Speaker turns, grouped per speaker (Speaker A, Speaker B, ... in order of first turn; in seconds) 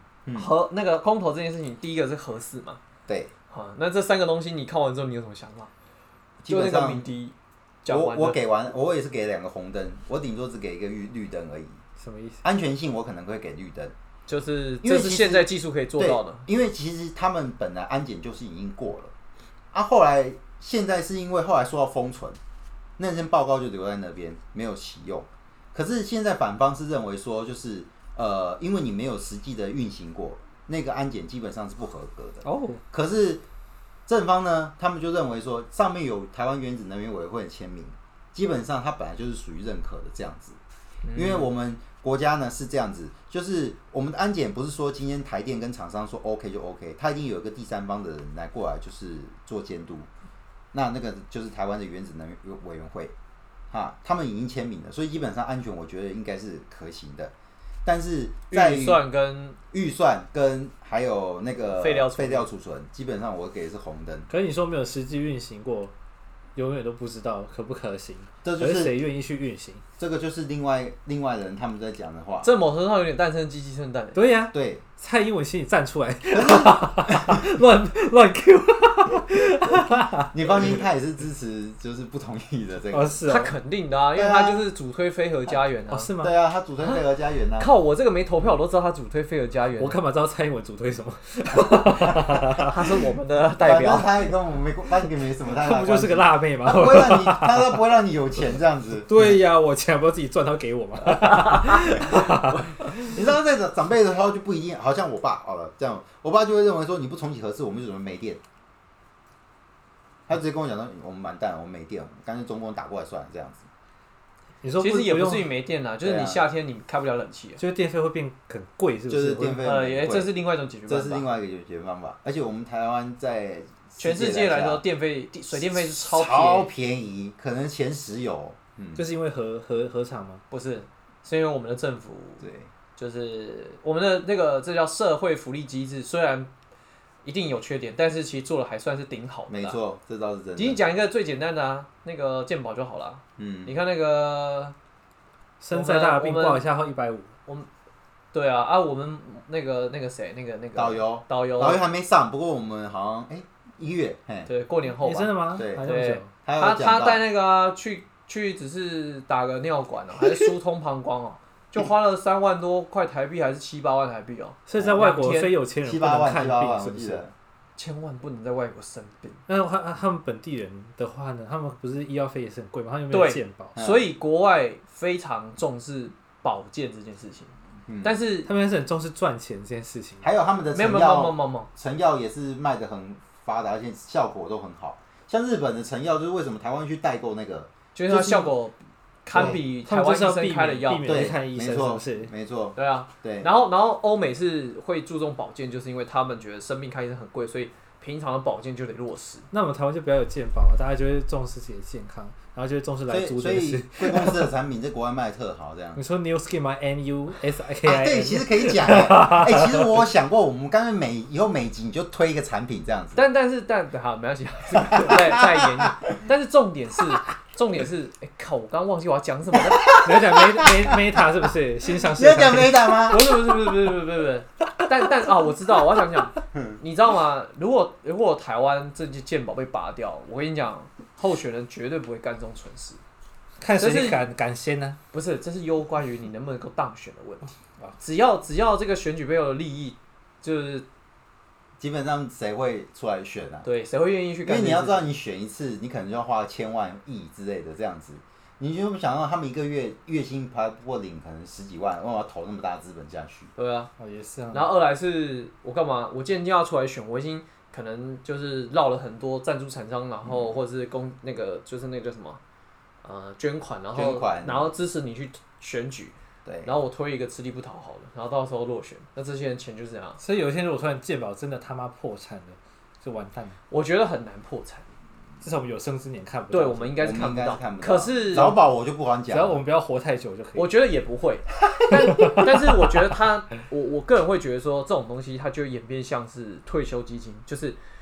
Speaker A: 0.3-0.5, 6.4-7.1, 7.9-11.8, 12.4-13.9, 14.8-19.1, 19.7-22.4, 23.0-33.4, 34.1-40.6, 41.1-50.1, 50.7-53.1, 53.7-57.3, 57.9-59.0, 59.7-64.3, 68.4-69.0, 70.0-72.5, 74.5-74.8, 76.3-77.4, 80.3-83.2, 84.2-84.7, 86.2-87.7, 93.6-99.2, 103.0-108.4, 110.3-113.7, 116.0-116.4, 119.1-124.8, 125.5-129.1, 132.4-132.7, 139.5-140.8, 143.4-143.7, 150.8-154.5, 155.6-155.9, 156.4-157.2, 165.8-167.3, 173.8-174.1, 177.9-178.2, 180.2-188.5, 189.3-189.6, 191.0-193.5, 203.1-206.0, 207.8-213.2, 214.9-215.7, 219.7-221.0, 222.0-223.3, 241.8-243.7, 244.4-253.5, 263.9-264.7, 266.4-266.7, 277.0-279.6, 281.7-282.5
Speaker B: 0.3-2.8, 3.5-5.7, 6.5-8.4, 14.3-16.5, 41.0-41.5, 58.5-59.6, 61.8-62.5, 72.4-74.2, 83.3-86.1, 87.6-90.0, 92.6-94.1, 101.1-102.6, 114.8-117.6, 119.6-121.2, 124.0-126.7, 130.5-136.5, 137.2-139.8, 140.6-144.8, 145.7-146.6, 148.3-151.8, 154.5-165.6, 167.8-169.4, 173.1-178.5, 180.7-181.7, 187.9-191.3, 192.8-199.5, 213.2-220.0, 223.1-233.0, 233.8-234.2, 235.1-240.9, 243.7-245.1, 253.6-253.9, 254.5-262.4, 263.0-270.2, 273.7-274.9, 276.5-278.6, 280.6-287.8
Speaker C: 12.0-12.4, 32.5-32.8, 64.3-65.9, 66.6-69.8, 74.2-80.8, 82.9-83.5, 85.9-86.3, 89.8-92.8, 95.5-97.8, 99.1-103.2, 114.6-115.5, 117.6-119.6, 128.9-130.4, 145.6-147.3, 155.0-156.3, 164.7-167.2, 169.5-173.7, 178.4-180.3, 189.9-192.3, 199.5-204.5, 206.0-210.1, 220.0-223.2, 233.6-235.0, 254.0-254.7, 270.2-273.6, 275.4-277.0, 279.3-280.7, 282.1-282.6